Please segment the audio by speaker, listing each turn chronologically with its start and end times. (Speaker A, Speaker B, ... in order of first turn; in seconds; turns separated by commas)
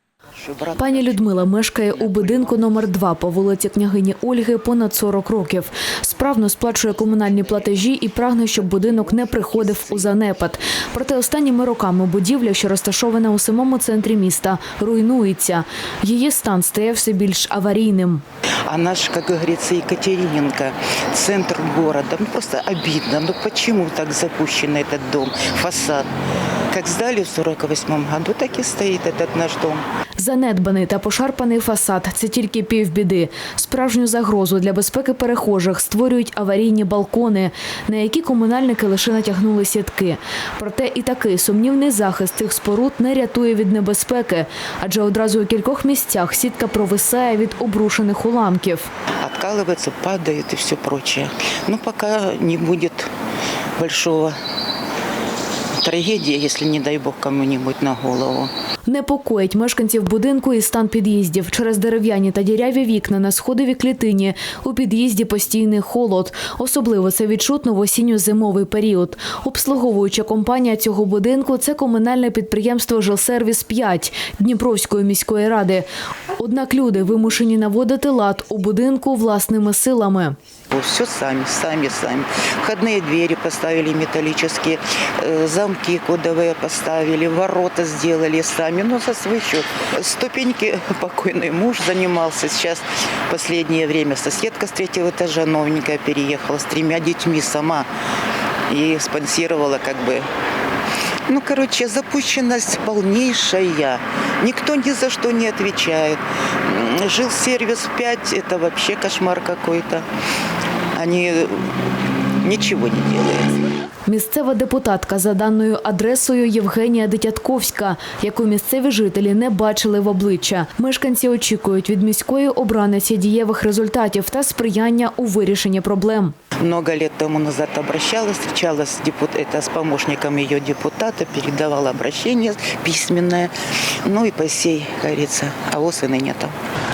Speaker A: 0.3-2.7, Speaker B: 0.8-18.2, Speaker A: 18.7-26.1, Speaker A: 26.7-29.8, Speaker B: 30.2-48.9, Speaker A: 49.2-53.1, Speaker A: 53.8-54.4, Speaker A: 55.8-58.5, Speaker B: 58.9-75.8, Speaker B: 76.4-80.4, Speaker A: 80.7-97.9, Speaker A: 98.7-100.3, Speaker A: 101.3-110.1, Speaker A: 110.9-111.9, Speaker A: 112.4-113.7, Speaker B: 114.1-126.3, Speaker A: 126.6-136.5